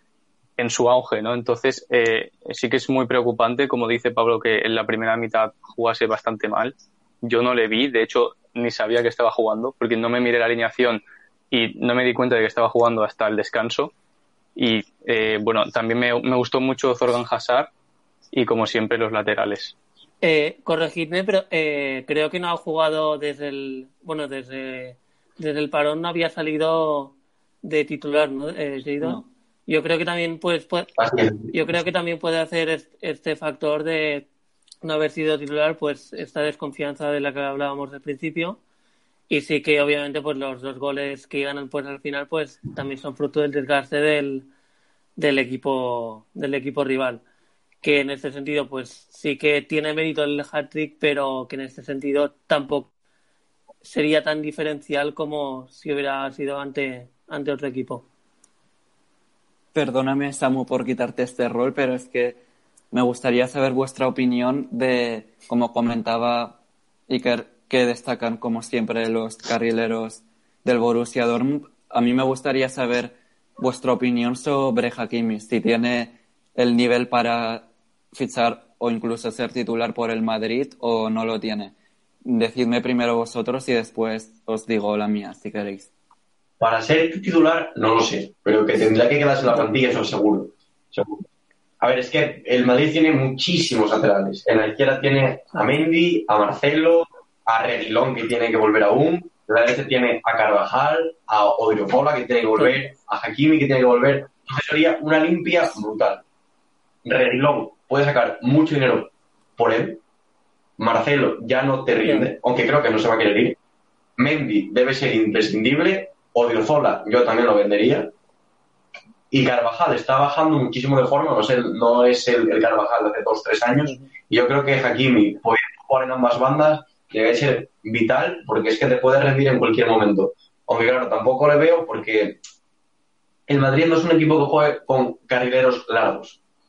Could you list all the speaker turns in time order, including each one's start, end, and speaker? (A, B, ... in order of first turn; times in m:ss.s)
0:00.6-0:13.9 A
0:14.6-0:17.7 A
0:18.3-0:19.7 A
0:20.2-0:30.9 B
0:31.0-0:31.5 C
0:31.5-0:34.3 B
0:34.8-0:38.6 B
0:39.3-0:44.5 B
0:45.2-0:47.2 B
0:47.8-0:52.9 B
0:53.8-0:58.0 B
0:59.7-1:02.4 D
1:02.9-1:06.6 D
1:07.1-1:21.7 D
1:22.2-1:25.9 D
1:26.6-1:31.2 C
1:31.8-1:46.2 C
1:47.0-1:50.0 C
1:50.8-1:53.6 C
1:54.2-1:58.1 C
1:59.3-2:12.4 C
2:03.7-2:04.1 B
2:13.5-2:16.4 C